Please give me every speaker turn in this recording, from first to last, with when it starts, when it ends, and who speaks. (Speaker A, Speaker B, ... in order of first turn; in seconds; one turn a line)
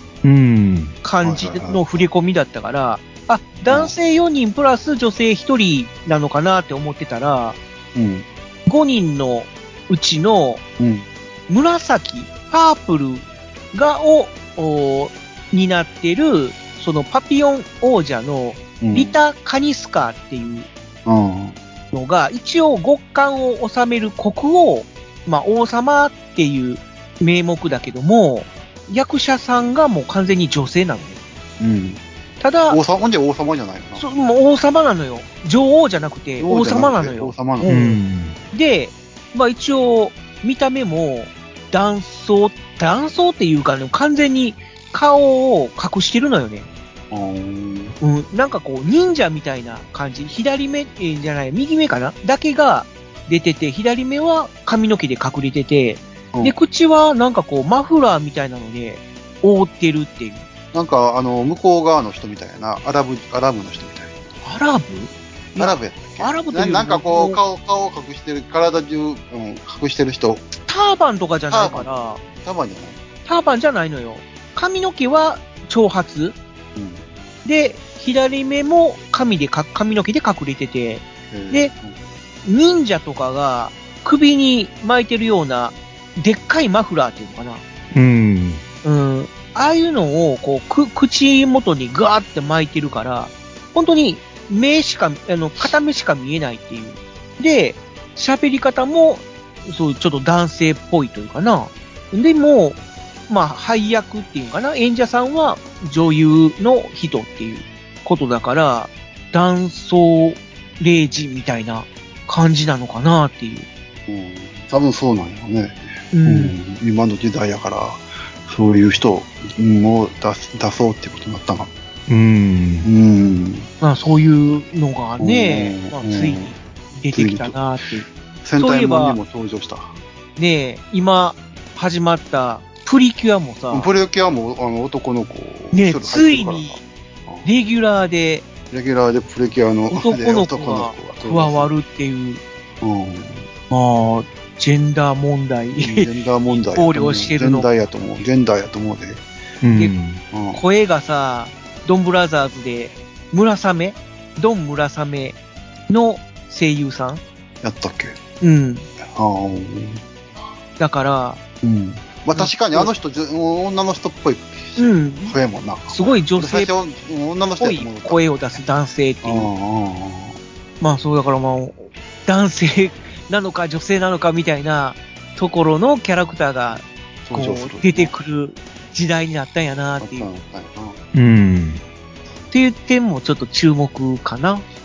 Speaker A: 0.2-0.9
Speaker B: 1.0-7.6
Speaker C: 1.2-2.1
Speaker C: 3.7-3.9
Speaker C: 8.0-8.3
Speaker B: 8.7-10.6
Speaker C: 10.8-11.1
Speaker B: 11.5-20.7
Speaker C: 18.8-19.1
Speaker C: 21.1-21.6
Speaker B: 21.9-31.2
Speaker C: 31.6-32.0
Speaker B: 32.4-32.8
Speaker C: 32.7-34.0
Speaker B: 34.0-38.0
Speaker C: 36.4-37.7
Speaker A: 37.7-38.4
Speaker B: 38.5-46.7
Speaker C: 47.1-48.0
Speaker B: 48.0-60.5
Speaker C: 60.7-64.2
Speaker B: 64.4-67.4
Speaker C: 65.6-70.5
Speaker B: 70.7-72.2
Speaker C: 71.5-73.0
Speaker B: 73.3-76.4
Speaker C: 76.8-77.1
Speaker B: 77.5-81.7
Speaker C: 81.3-82.0
Speaker B: 82.5-87.6
Speaker A: 87.9-88.6
Speaker B: 88.8-113.7
Speaker C: 114.1-121.7
Speaker B: 116.1-116.5
Speaker A: 122.1-122.9
Speaker C: 122.8-123.7
Speaker B: 123.8-129.2
Speaker C: 125.2-126.5
Speaker C: 127.1-127.6
Speaker C: 128.4-129.9
Speaker B: 130.4-133.9
Speaker C: 133.7-137.5
Speaker B: 135.7-136.8
Speaker B: 137.4-138.5
Speaker C: 138.7-141.7
Speaker B: 139.9-142.4
Speaker C: 142.8-143.5
Speaker B: 143.7-146.1
Speaker C: 145.8-149.2
Speaker B: 146.7-147.7
Speaker A: 149.6-150.2
Speaker C: 150.3-150.6
Speaker B: 150.5-155.4
Speaker B: 155.9-157.2
Speaker C: 157.6-158.2
Speaker B: 158.4-158.9
Speaker C: 159.0-160.0
Speaker B: 160.8-161.4
Speaker C: 161.6-168.2
Speaker B: 162.3-162.9
Speaker B: 164.8-165.4
Speaker B: 165.9-166.7
Speaker B: 167.6-169.5
Speaker C: 169.2-170.4
Speaker B: 170.8-180.3
Speaker C: 177.2-178.1
Speaker C: 180.0-181.0
Speaker A: 181.1-181.8
Speaker B: 182.5-184.7